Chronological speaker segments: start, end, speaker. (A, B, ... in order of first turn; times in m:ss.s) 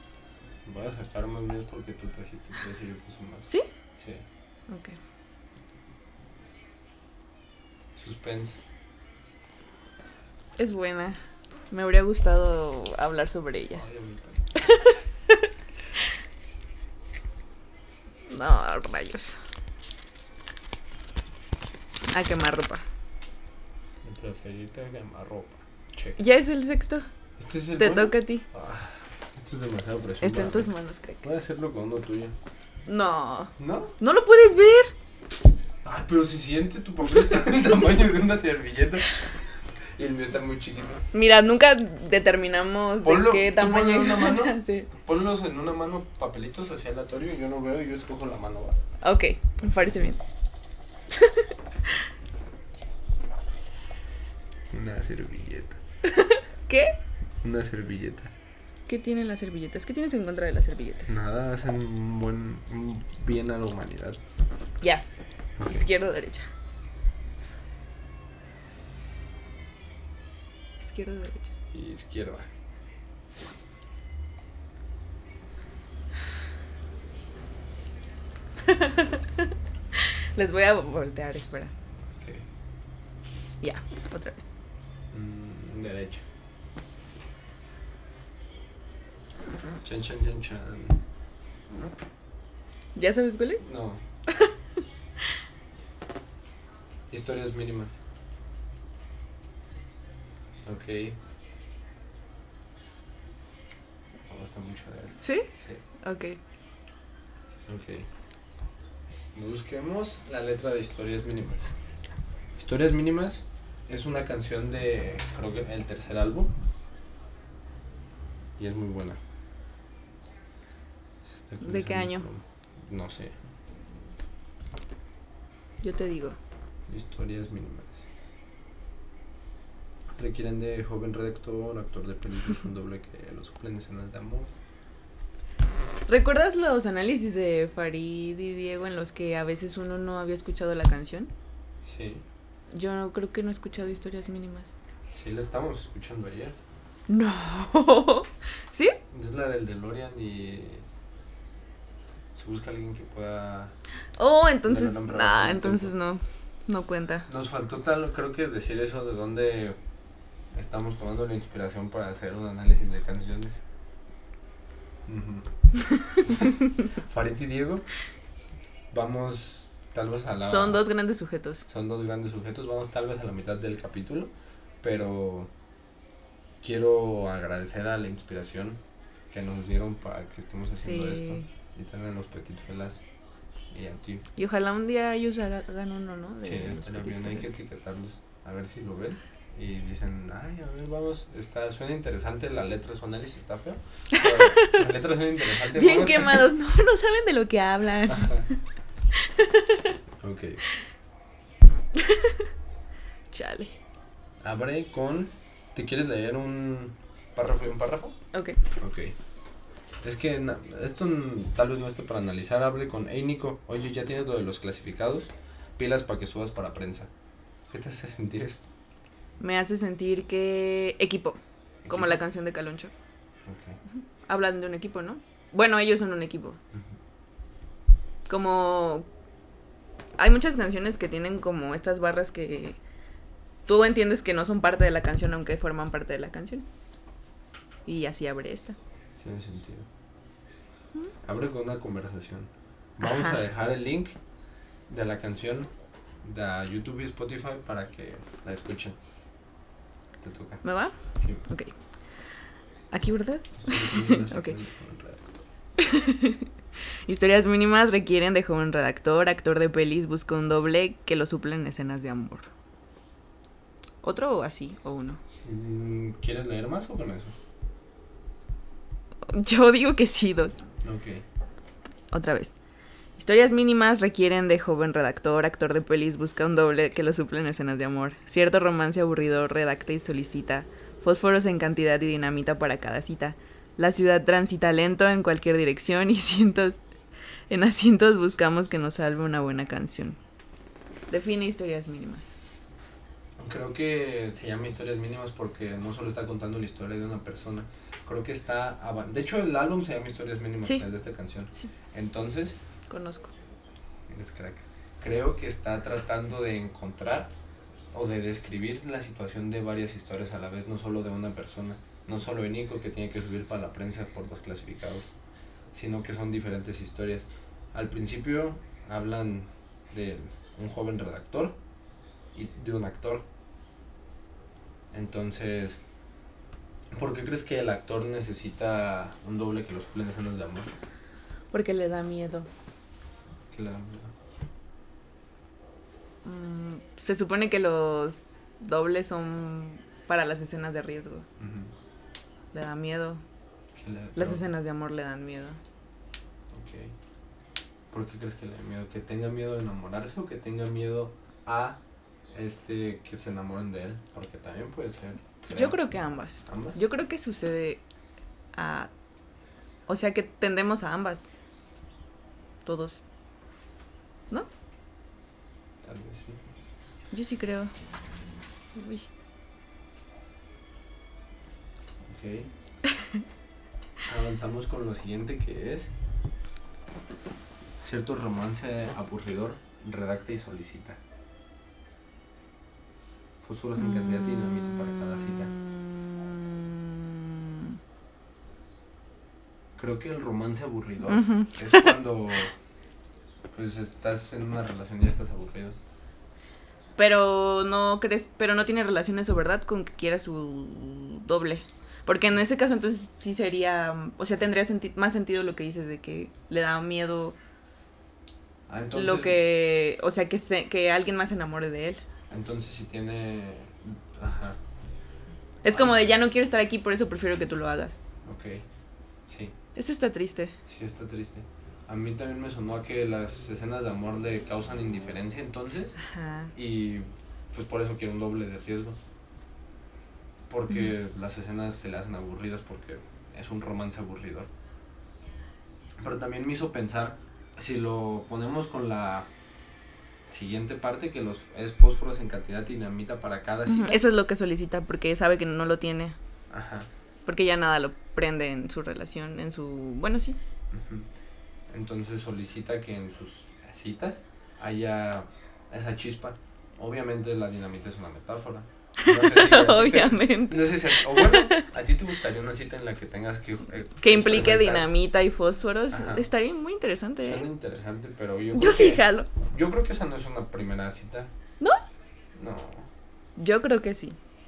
0:00.6-0:04.2 A
0:04.7-0:05.0 B
0:08.0-0:08.6 A
0:10.6-0:11.2 B
0:11.7-0:13.8 B
0:13.7-0:14.7 A
0:14.6-0:15.5 B
0:18.3-0:19.4 B
0:22.1-0:22.8 B
0:24.0-0:26.2 A
0:26.2-0:27.1 B
0:27.4-0:32.3 A
0:27.8-0:28.4 B
0:30.2-0:31.2 B
0:32.8-0:34.9 B
0:33.6-0:34.0 A
0:35.8-0:41.0 A
0:37.2-0:37.6 B
0:41.1-0:44.9 B
0:43.0-0:48.8 A
0:49.0-0:50.2 B
0:51.1-0:52.1 B
0:54.7-0:55.8 A
0:56.0-0:57.0 B
0:57.4-0:58.3 A
0:58.9-1:01.2 B
1:01.0-1:04.2 A
1:04.8-1:05.0 B
1:05.6-1:05.9 A
1:05.6-1:06.5 B
1:10.8-1:11.5 B
1:11.7-1:12.5 A
1:18.6-1:21.7 B
1:22.1-1:22.4 A
1:23.6-1:24.5 B
1:25.1-1:26.2 A
1:29.8-1:31.0 A
1:32.9-1:33.6 B
1:33.6-1:34.0 A
1:37.1-1:38.0 A
1:40.6-1:41.2 A
1:44.3-1:45.8 A
1:45.2-1:46.4 B
1:47.7-1:48.1 A
1:49.3-1:51.7 A
1:52.6-1:56.5 A
1:58.6-1:59.2 A
2:01.2-2:03.3 A
2:01.6-2:02.3 B
2:05.8-2:06.4 B
2:06.9-2:08.1 A
2:10.1-2:14.5 A
2:16.1-2:21.3 B
2:21.8-2:22.2 A
2:22.7-2:24.7 B
2:25.1-2:26.6 A
2:27.1-2:29.0 B
2:29.1-2:30.8 A
2:32.3-2:33.7 A
2:34.2-2:37.3 B
2:34.6-2:36.0 A
2:37.3-2:39.8 A
2:40.5-2:43.6 A
2:45.0-2:45.5 A
2:46.2-2:47.9 A
2:48.9-2:50.8 A
2:50.3-2:51.6 B
2:51.7-2:54.3 A
2:54.8-2:55.5 A
2:56.6-2:58.8 A
2:59.3-3:03.0 A
3:00.8-3:01.4 B
3:03.7-3:04.2 A
3:04.4-3:07.6 B
3:06.4-3:16.5 A
3:14.1-3:14.9 B
3:15.4-3:18.6 B
3:18.0-3:18.5 A
3:19.1-3:19.9 B
3:20.2-3:20.6 A
3:21.8-3:22.5 B
3:23.3-3:23.7 B
3:24.4-3:28.2 A
3:28.3-3:28.6 B
3:28.7-3:29.2 A
3:30.0-3:37.1 A
3:37.7-3:38.7 A
3:39.4-3:42.9 B
3:41.8-3:42.2 A
3:43.4-3:43.8 A
3:43.9-3:46.6 B
3:48.3-3:49.1 B
3:50.2-3:52.8 B
3:53.6-3:56.6 B
3:57.8-3:58.8 B
3:59.2-3:59.8 A
4:01.2-4:04.2 A
4:03.0-4:03.4 B
4:04.9-4:05.7 A
4:06.2-4:09.0 A
4:10.2-4:10.6 A
4:10.6-4:11.7 B
4:11.1-4:11.4 A
4:12.9-4:14.5 B
4:13.5-4:15.4 A
4:15.8-4:16.5 B
4:17.0-4:22.5 B
4:24.0-4:25.2 B
4:25.4-4:27.3 A
4:29.2-4:30.6 B
4:30.8-4:31.2 A
4:32.1-4:32.5 B
4:33.2-4:46.8 B
4:47.5-4:50.2 B
4:51.1-4:52.4 B
4:53.4-5:02.6 A
5:02.9-5:03.3 B
5:04.1-5:07.3 A
5:07.9-5:15.1 A
5:15.7-5:21.6 A
5:22.3-5:23.2 A
5:24.9-5:25.8 A
5:26.9-5:30.7 A
5:31.5-5:32.5 B
5:33.5-5:34.1 A
5:36.2-5:41.2 B
5:41.4-5:41.7 A
5:42.5-5:43.2 B
5:43.7-5:44.5 A
5:44.1-5:45.6 B
5:46.5-5:46.9 A
5:47.9-5:51.8 A
5:52.3-5:55.8 A
5:55.5-5:57.8 B
5:56.4-5:56.8 A
5:58.5-5:58.9 B
5:59.9-6:01.3 B
6:02.6-6:03.0 B
6:05.8-6:06.4 A
6:07.1-6:07.7 B
6:08.7-6:09.1 B
6:12.0-6:12.5 A
6:12.8-6:13.2 B
6:14.0-6:15.9 A
6:17.8-6:21.0 A
6:23.4-6:25.6 A
6:25.7-6:27.8 B
6:29.8-6:32.5 A
6:31.0-6:31.9 B
6:33.5-6:35.8 A
6:37.0-6:47.4 B
6:48.7-6:49.4 A
6:48.9-6:52.0 B
6:52.3-6:54.6 A
6:55.6-6:58.0 B
6:55.7-6:56.2 A
6:58.2-6:58.6 A
6:59.3-6:59.6 A
6:59.7-7:00.6 B
7:00.6-7:06.0 A
7:06.0-7:06.5 B
7:06.5-7:09.0 A
7:10.5-7:14.5 A
7:16.0-7:19.3 A
7:20.3-7:24.0 A
7:23.6-7:26.2 B
7:26.5-7:26.9 A
7:27.2-7:30.4 B
7:30.7-7:31.1 A
7:31.7-7:44.9 A
7:39.0-7:41.7 B
7:44.0-7:47.4 B
7:45.9-7:46.3 A
7:47.2-7:51.3 A
7:48.5-7:49.3 B
7:52.3-7:52.9 A
7:53.4-7:54.2 B